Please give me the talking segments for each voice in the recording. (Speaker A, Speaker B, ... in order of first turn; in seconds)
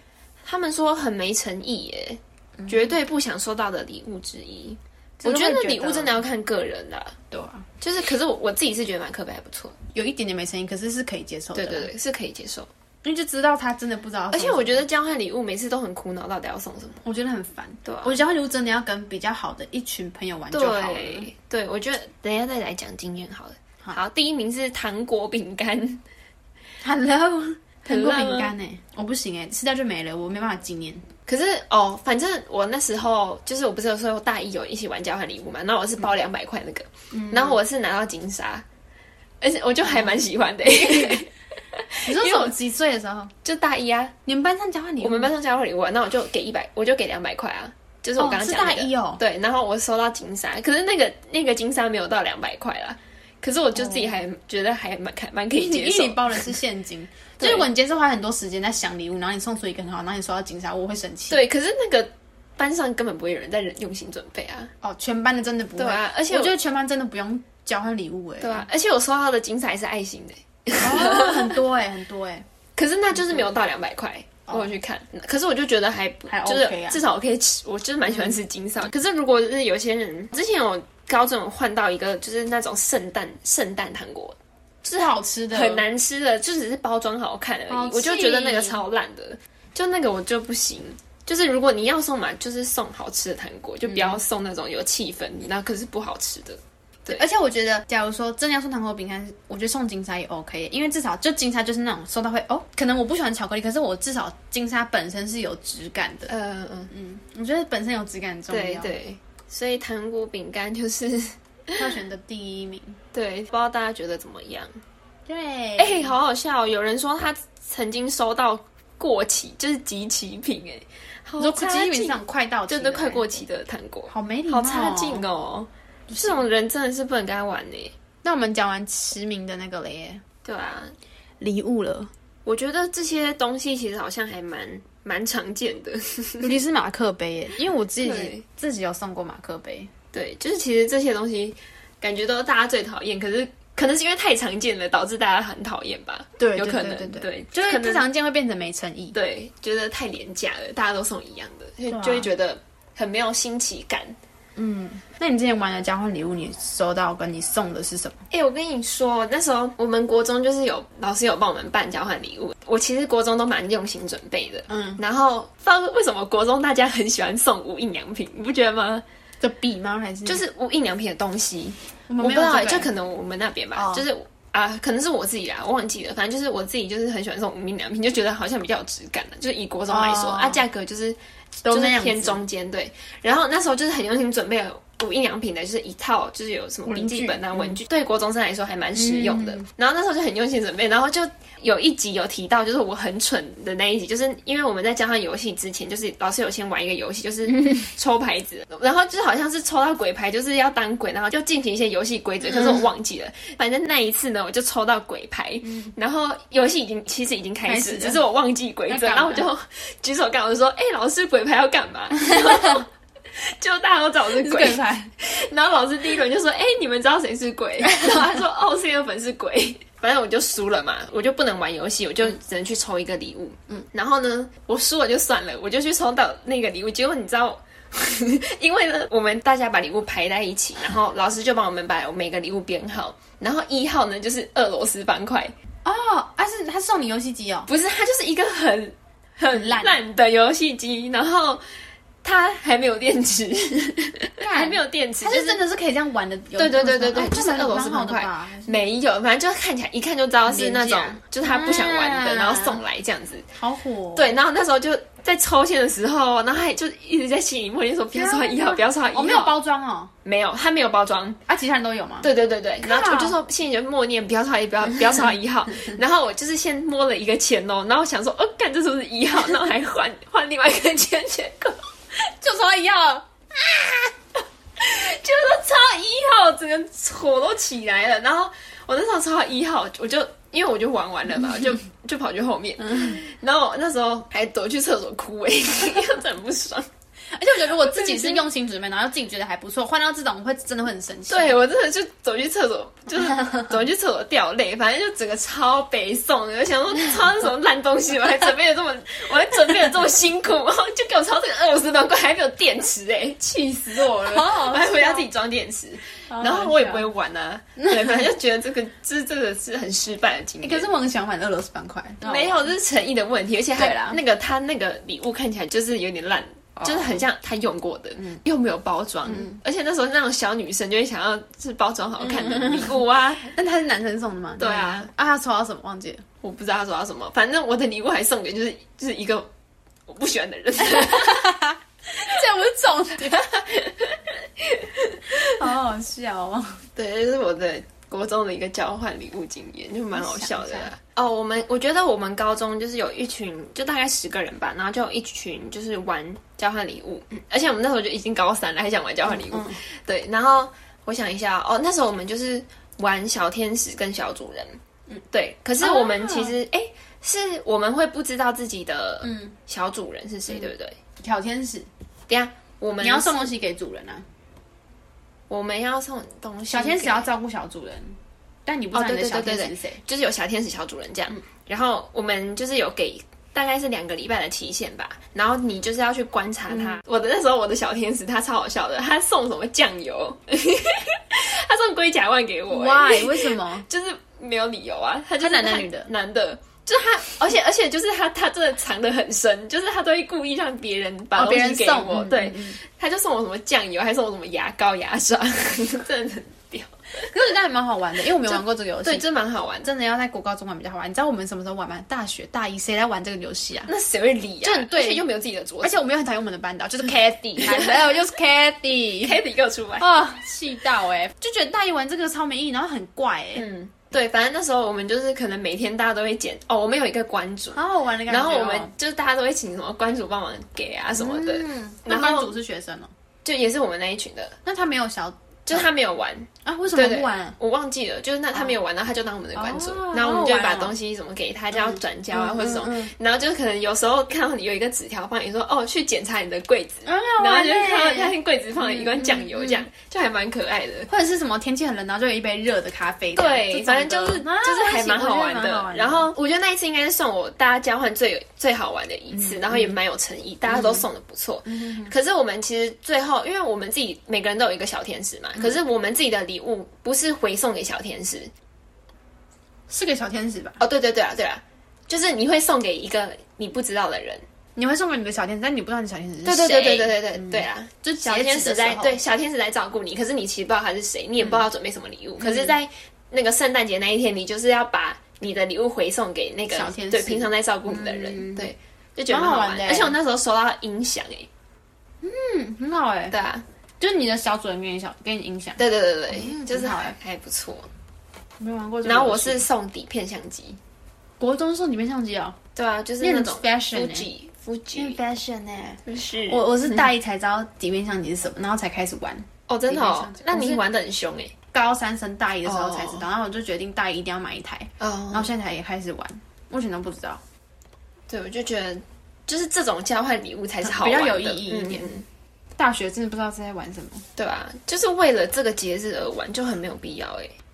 Speaker A: 0.4-7.2, 7.8-9.8, 11.5-12.7, 14.3-17.0, 17.9-18.2, 20.5-26.0, 27.9-28.5, 31.3-38.6, 39.4-42.5, 43.4-44.1, 45.0-56.5, 57.4-57.7, 61.3-64.7, 65.8-66.5, 68.4-71.6, 72.8-84.4, 85.5-97.2, 106.3-106.9, 108.5-111.8, 113.1-114.7, 115.8-122.2, 122.7-127.9, 130.4-130.9, 132.5-136.5, 138.0-138.4, 140.1-148.1, 149.1-154.2, 158.3-169.0, 170.3-181.2, 181.7-235.5, 237.7-241.6, 242.2-245.6, 246.6-253.5, 254.2-259.6, 260.2-261.4, 262.2-271.9, 274.8-286.9, 287.8-288.5, 291.3-310.9, 312.2-323.5, 324.6-325.1, 326.4-329.5, 330.1-331.5, 333.3-335.6, 337.0-354.8, 355.3-361.0, 362.3-363.5, 365.5-367.3, 368.9-397.3, 398.4-399.9, 403.9-406.0, 407.1-408.0, 409.2-410.1, 413.6-422.5, 423.4-424.6, 425.7-441.1, 443.3-458.5, 460.8-464.4, 466.4-481.5, 483.3-483.6, 485.8-487.9, 489.0-490.8, 492.8-495.2, 496.1-497.0, 499.7-501.5, 502.6-503.2, 505.0-505.5, 508.3-512.2, 514.4-517.6
Speaker B: 2.6-2.9, 5.2-6.2, 7.3-7.7, 9.9-11.9, 13.0-14.8, 17.0-21.3, 26.8-31.1, 37.1-37.6, 39.9-41.2, 42.1-43.3, 44.3-45.3, 48.2-49.2, 53.8-54.2, 55.5-61.4, 64.8-68.7, 70.8-72.5, 73.2-73.5, 76.3-77.0, 78.1-78.4, 84.8-85.8, 87.7-88.8, 93.9-94.2, 97.1-106.3, 106.9-109.0, 111.8-113.0, 115.3-116.2, 121.4-123.4, 124.1-125.2, 126.1-126.4, 128.2-130.2, 131.4-132.1, 136.4-139.9, 146.4-149.2, 151.9-152.3, 154.6-158.2, 164.7-165.0, 169.4-170.4, 172.1-172.9, 173.8-174.0, 179.9-180.6, 181.6-182.4, 186.9-187.8, 188.9-189.7, 202.5-202.8, 205.7-205.9, 207.7-208.2, 208.9-209.5, 212.3-212.8, 214.3-215.1, 217.8-218.2, 235.8-237.7, 239.5-240.0, 244.4-248.8, 250.5-252.8, 253.6-254.4, 258.1-260.1, 261.5-262.3, 262.8-263.4, 272.2-274.1, 287.3-291.6, 304.0-305.3, 306.3-307.1, 307.9-308.2, 310.6-312.7, 313.8-314.2, 316.8-317.2, 319.3-319.6, 322.2-326.2, 330.8-333.4, 335.5-336.8, 340.2-340.9, 349.3-349.8, 355.8-356.6, 359.2-359.5, 360.5-361.9, 363.0-364.3, 366.7-370.0, 376.7-377.0, 382.7-383.9, 385.4-386.1, 391.4-392.8, 397.3-399.2, 399.8-403.9, 404.6-405.3, 405.8-409.4, 410.0-413.7, 417.7-418.9, 421.2-423.1, 424.6-425.9, 426.6-427.6, 429.6-431.0, 431.8-433.1, 437.1-439.8, 441.1-446.3, 449.3-450.0, 450.7-451.1, 451.7-452.1, 459.9-460.8, 464.8-469.2, 471.4-471.6, 472.4-472.8, 476.7-478.7, 479.3-480.2, 482.2-483.4, 484.0-487.2, 488.6-489.6, 491.4-492.6, 493.2-494.3, 495.0-500.8, 501.7-507.4, 510.8-512.1, 512.8-514.2